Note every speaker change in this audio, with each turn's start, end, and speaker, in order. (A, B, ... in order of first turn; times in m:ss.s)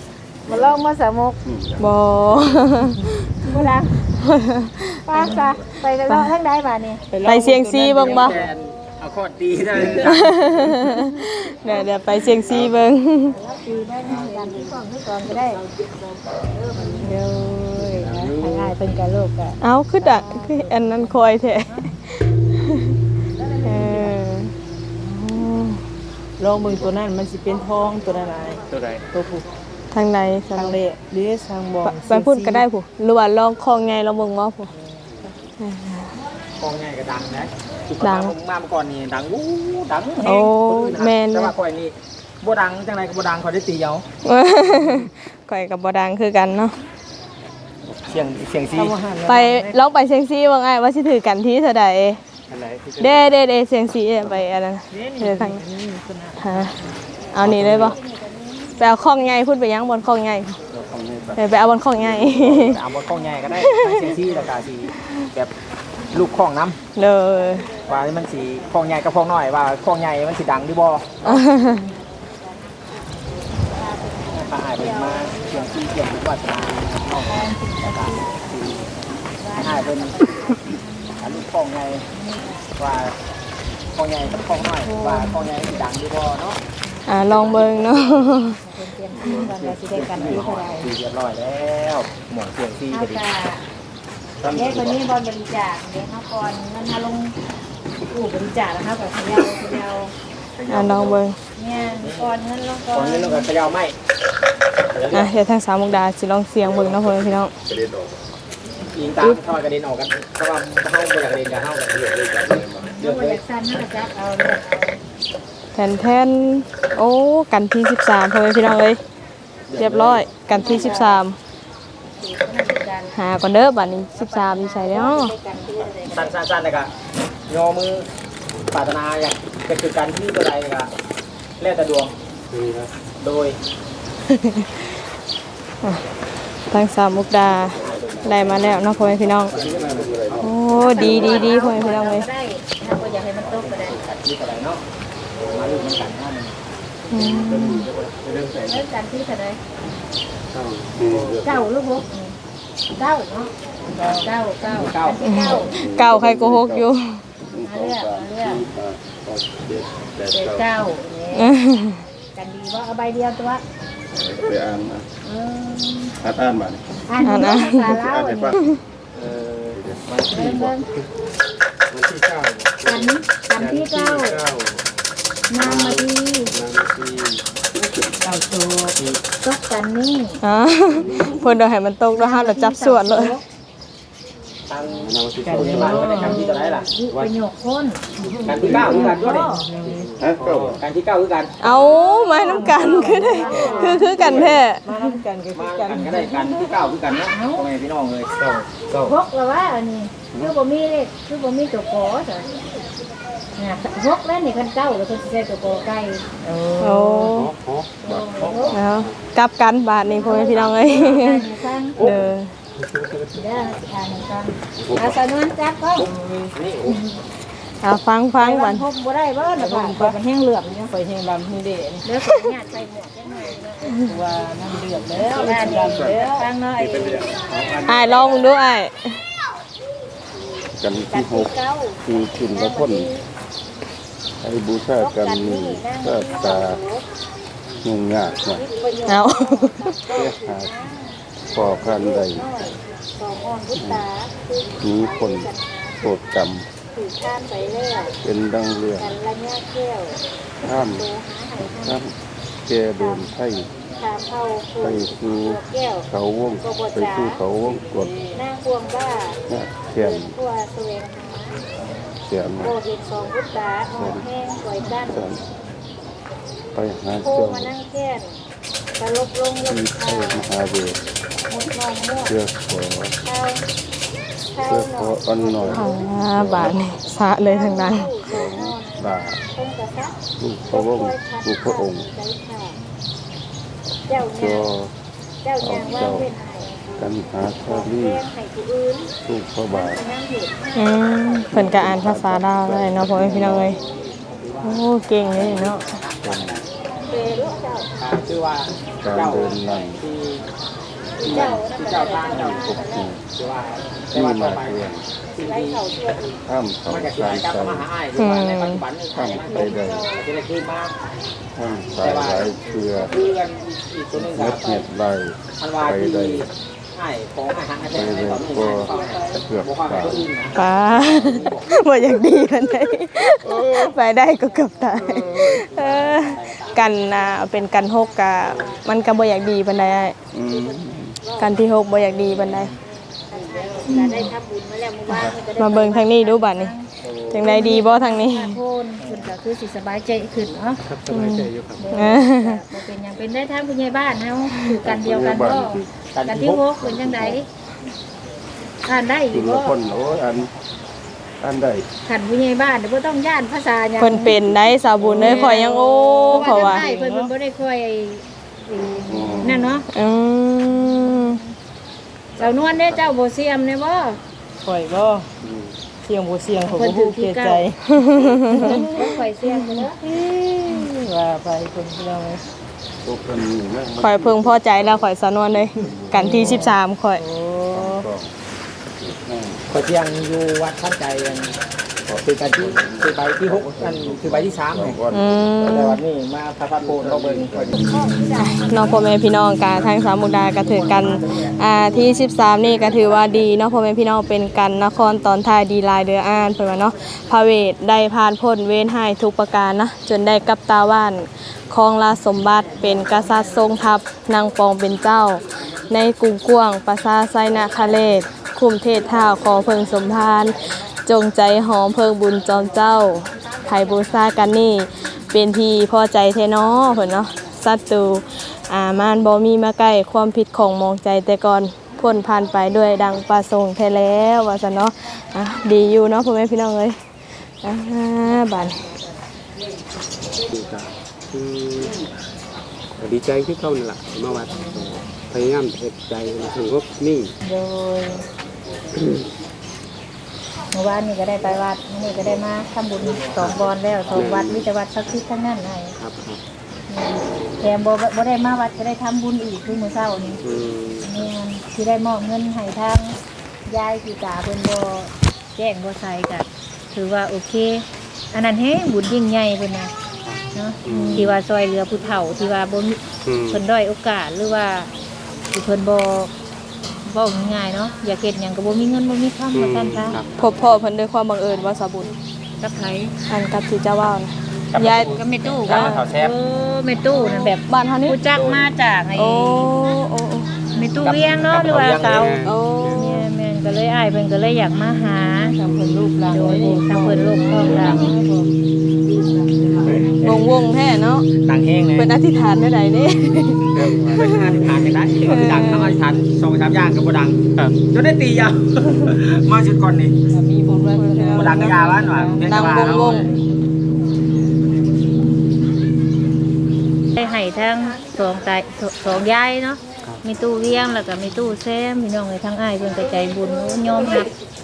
0:00.5-0:01.4 A
0:00.5-0:00.8 B
0:01.4-0:02.7 B
0:01.8-0:03.6 C
0:03.5-0:04.0 A
0:04.2-0:05.4 C
0:05.0-0:07.0 A
0:05.2-0:05.6 B
0:07.1-0:08.5 D
0:07.2-0:08.4 C
0:08.0-0:10.5 E
0:10.0-0:13.4 C
0:13.3-0:15.6 A
0:14.1-0:14.3 F
0:16.5-0:21.9 A
0:16.8-0:17.1 F
0:17.8-0:18.8 F
0:19.6-0:23.0 C
0:23.4-0:24.2 A
0:23.6-0:25.8 C
0:26.4-0:29.4 D
0:28.7-0:29.1 F
0:29.9-0:30.8 C
0:30.6-0:32.6 D
0:31.8-0:34.7 C
0:34.7-0:35.2 D
0:35.0-0:35.5 F
0:35.6-0:36.1 C
0:36.6-0:44.0 E
0:38.0-0:38.3 C
0:40.2-0:41.6 C
0:44.2-0:46.8 C
0:48.1-0:48.9 E
0:48.7-0:49.8 D
0:49.3-0:52.2 C
0:52.5-0:53.3 F
0:53.0-0:55.6 C
0:54.9-0:56.9 D
0:56.4-0:56.7 C
0:57.3-0:58.0 C
0:57.4-0:58.0 F
0:57.6-0:59.0 A
0:58.8-1:00.6 C
1:00.7-1:02.8 B
1:01.4-1:02.8 C
1:02.5-1:05.5 E
1:03.5-1:04.1 C
1:06.1-1:06.8 E
1:07.0-1:07.7 C
1:07.3-1:08.7 A
1:07.8-1:11.2 E
1:11.2-1:15.7 A
1:11.2-1:11.8 C
1:14.3-1:18.9 E
1:17.2-1:18.9 A
1:19.4-1:21.5 A
1:19.6-1:20.5 E
1:21.2-1:22.0 E
1:22.1-1:22.8 A
1:22.8-1:23.2 E
1:24.0-1:26.6 E
1:24.3-1:25.9 A
1:26.8-1:30.9 A
1:27.1-1:28.6 C
1:29.2-1:30.4 B
1:30.0-1:33.2 E
1:30.1-1:30.4 F
1:32.9-1:33.6 A
1:34.4-1:35.1 B
1:34.5-1:37.4 A
1:38.1-1:40.1 A
1:40.6-1:41.2 F
1:40.7-1:41.4 C
1:41.6-1:43.5 A
1:41.8-1:42.4 E
1:42.9-1:44.0 E
1:44.9-1:45.3 E
1:45.1-1:47.5 C
1:46.8-1:48.2 B
1:48.9-1:52.2 E
1:52.0-1:52.6 F
1:52.5-1:52.9 B
1:52.8-1:55.0 A
1:53.0-1:53.4 E
1:55.8-1:59.0 C
1:59.7-2:01.0 E
1:59.8-2:01.4 C
1:59.8-2:00.2 F
2:00.5-2:01.2 A
2:02.2-2:03.2 A
2:03.2-2:05.3 C
2:04.2-2:06.4 A
2:06.0-2:06.9 E
2:07.5-2:08.1 E
2:08.7-2:10.9 E
2:11.6-2:12.1 E
2:12.5-2:12.9 F
2:13.2-2:13.6 E
2:14.3-2:14.8 C
2:16.7-2:19.5 C
2:17.5-2:18.9 E
2:17.8-2:18.3 B
2:19.5-2:21.5 B
2:19.5-2:20.5 F
2:19.8-2:20.1 E
2:20.4-2:22.3 C
2:20.8-2:24.0 A
2:23.4-2:24.8 E
2:25.4-2:26.6 E
2:27.1-2:28.3 E
2:27.1-2:27.9 C
2:27.5-2:27.7 F
2:28.2-2:28.8 F
2:28.6-2:29.6 A
2:30.5-2:31.4 F
2:31.0-2:31.7 B
2:31.4-2:32.4 A
2:33.0-2:33.5 A
2:33.9-2:34.4 D
2:34.0-2:35.8 A
2:34.6-2:35.6 E
2:35.2-2:37.2 C
2:35.6-2:36.9 B
2:37.4-2:40.7 B
2:37.6-2:38.6 A
2:40.3-2:41.5 A
2:41.4-2:42.0 C
2:42.4-2:43.6 A
2:44.1-2:45.1 B
2:45.2-2:46.1 A
2:46.2-2:46.9 B
2:47.1-2:48.6 A
2:47.2-2:48.0 C
2:47.8-2:48.7 B
2:49.2-2:51.1 F
2:49.7-2:50.7 B
2:50.1-2:50.5 E
2:50.3-2:50.9 A
2:51.9-2:54.8 F
2:52.8-2:54.4 A
2:55.5-2:56.5 A
2:55.6-2:57.4 F
2:58.2-2:59.0 D
2:59.4-3:00.4 A
3:00.4-3:03.4 C
3:02.1-3:03.4 A
3:04.7-3:06.9 E
3:05.0-3:07.4 F
3:05.4-3:06.5 D
3:06.4-3:08.0 A
3:08.2-3:10.8 F
3:08.3-3:10.1 D
3:08.4-3:09.6 E
3:08.6-3:09.6 A
3:10.2-3:10.8 B
3:10.7-3:11.6 E
3:11.6-3:14.9 C
3:11.6-3:12.0 F
3:12.3-3:14.4 A
3:12.3-3:16.8 D
3:14.1-3:14.6 E
3:15.5-3:18.3 E
3:17.1-3:17.7 A
3:18.3-3:19.2 F
3:19.0-3:22.7 A
3:23.6-3:26.2 A
3:26.4-3:27.3 D
3:26.8-3:27.5 C
3:27.3-3:29.2 F
3:28.0-3:28.8 A
3:28.0-3:28.5 B
3:28.4-3:28.8 E
3:28.7-3:31.5 C
3:30.0-3:32.0 A
3:30.5-3:31.1 E
3:32.0-3:33.4 F
3:32.0-3:32.5 C
3:33.3-3:36.1 A
3:34.8-3:35.2 F
3:36.0-3:37.0 E
3:36.8-3:37.2 A
3:37.8-3:38.9 C
3:38.4-3:40.9 A
3:39.5-3:40.2 D
3:40.9-3:42.1 D
3:42.0-3:44.1 A
3:44.0-3:46.5 D
3:45.2-3:46.2 B
3:45.2-3:48.4 A
3:46.8-3:48.5 F
3:47.9-3:49.2 C
3:50.8-3:53.1 B
3:51.1-3:53.2 A
3:54.4-3:56.8 B
3:55.0-3:57.0 A
3:57.8-3:58.6 B
3:58.5-4:06.2 A
3:59.1-3:59.8 C
4:00.1-4:00.7 B
4:01.5-4:02.5 B
4:03.8-4:04.0 B
4:04.8-4:05.5 B
4:06.0-4:06.6 B
4:06.9-4:08.2 A
4:08.2-4:09.2 B
4:09.0-4:12.0 A
4:10.6-4:11.1 B
4:11.8-4:13.7 B
4:13.0-4:13.3 A
4:14.0-4:16.1 A
4:14.8-4:18.1 B
4:16.6-4:17.4 A
4:17.9-4:18.4 D
4:18.3-4:19.4 A
4:19.5-4:20.4 B
4:20.0-4:21.6 A
4:22.2-4:22.8 B
4:22.6-4:25.3 A
4:24.0-4:24.2 B
4:24.9-4:25.4 B
4:26.7-4:27.7 B
4:27.2-4:28.4 A
4:29.0-4:30.5 A
4:29.7-4:31.0 B
4:31.5-4:32.3 A
4:32.3-4:33.2 B
4:33.2-4:33.6 A
4:34.5-4:36.8 A
4:34.6-4:36.8 B
4:35.7-4:38.1 C
4:37.4-4:40.2 A
4:38.2-4:39.4 B
4:40.4-4:42.1 B
4:40.7-4:42.8 A
4:44.1-4:44.7 A
4:44.3-4:44.9 B
4:45.4-4:46.8 A
4:45.6-4:46.3 B
4:47.0-4:48.2 B
4:47.6-4:49.1 A
4:49.2-4:50.0 B
4:49.7-4:51.7 A
4:50.8-4:53.8 C
4:51.5-4:53.8 B
4:53.4-4:54.8 E
4:54.6-4:56.0 C
4:55.4-4:56.6 B
4:55.6-4:56.5 E
4:57.0-4:57.9 A
4:58.0-5:00.4 E
4:59.0-5:00.0 B
5:01.2-5:03.1 A
5:01.2-5:05.8 E
5:01.2-5:01.6 B
5:02.2-5:03.2 B
5:04.1-5:05.0 B
5:05.4-5:06.4 A
5:06.4-5:07.9 B
5:06.9-5:11.0 E
5:08.2-5:08.8 C
5:09.1-5:10.1 B
5:09.3-5:10.2 A
5:11.6-5:13.2 B
5:12.0-5:12.5 E
5:12.4-5:13.6 A
5:13.1-5:14.8 E
5:14.1-5:16.5 B
5:15.6-5:21.8 E
5:17.9-5:20.3 B
5:18.6-5:20.2 D
5:20.5-5:30.2 C
5:23.4-5:23.9 B
5:23.8-5:25.0 A
5:25.0-5:25.6 B
5:25.2-5:26.9 E
5:26.7-5:40.8 A
5:30.3-5:31.2 B
5:31.4-5:32.7 C
5:32.5-5:32.7 E
5:33.4-5:33.8 E
5:33.9-5:34.3 C
5:35.1-5:36.7 C
5:35.1-5:35.4 B
5:37.0-5:37.3 E
5:37.3-5:38.6 C
5:40.8-5:42.1 F
5:41.1-5:42.6 C
5:41.8-5:47.5 A
5:44.8-5:45.9 B
5:46.2-5:46.7 E
5:46.8-5:47.4 B
5:48.9-5:49.8 A
5:49.3-5:50.5 B
5:51.4-5:51.9 B
5:52.0-5:54.4 A
5:54.0-5:56.8 C
5:55.0-5:57.3 D
5:55.0-5:59.9 A
5:59.1-5:59.8 B
5:59.9-6:01.4 C
6:00.7-6:01.5 A
6:02.4-6:04.2 A
6:04.6-6:05.3 D
6:05.4-6:05.7 B
6:06.0-6:07.8 D
6:06.6-6:07.7 A
6:07.9-6:08.9 C
6:08.5-6:10.0 A
6:08.5-6:09.1 D
6:09.5-6:09.9 C
6:10.0-6:12.4 D
6:13.0-6:16.8 B
6:14.0-6:17.2 C
6:16.1-6:18.1 D
6:17.7-6:18.3 B
6:18.9-6:19.7 B
6:19.7-6:21.6 E
6:22.0-6:25.9 B
6:22.4-6:25.0 E
6:25.1-6:26.0 C
6:25.6-6:27.8 E
6:26.8-6:28.5 B
6:27.9-6:29.0 A
6:28.3-7:07.0 C
6:30.7-6:31.5 E
7:07.6-7:08.8 C
7:08.5-7:08.9 A
7:10.5-7:12.0 F
7:13.0-7:17.4 F
7:17.4-7:18.2 A
7:19.0-7:19.3 F
7:20.7-7:26.0 A
7:23.4-7:23.6 F
7:24.1-7:24.7 F
7:26.0-7:26.4 F
7:26.9-7:30.4 A
7:30.4-7:31.3 F
7:31.0-7:39.9 A
7:40.2-7:41.4 F
7:40.5-7:44.9 A
7:40.9-7:41.3 C
7:43.2-7:43.6 F
7:45.5-7:46.3 A
7:47.1-7:50.2 A
7:49.5-7:50.4 F
7:50.4-7:52.1 C
7:52.6-7:53.1 A
7:53.3-7:56.1 C
7:54.8-7:55.9 F
7:55.1-7:59.7 A
7:55.6-7:56.4 E
7:57.1-7:58.2 C
7:58.4-7:58.7 E
7:59.2-8:00.7 C
8:00.7-8:05.6 A
8:01.0-8:02.4 E
8:01.8-8:03.0 F
8:02.4-8:03.3 C
8:05.0-8:08.5 D
8:06.3-8:08.2 A
8:07.6-8:08.2 E
8:09.1-8:10.2 D
8:10.2-8:11.3 C
8:11.4-8:12.1 E
8:12.0-8:14.6 C
8:13.7-8:14.9 F
8:14.2-8:20.2 E
8:15.3-8:16.0 C
8:17.6-8:17.8 F
8:20.3-8:23.3 D
8:20.7-8:23.3 C
8:21.3-8:23.3 E
8:27.2-8:34.3 A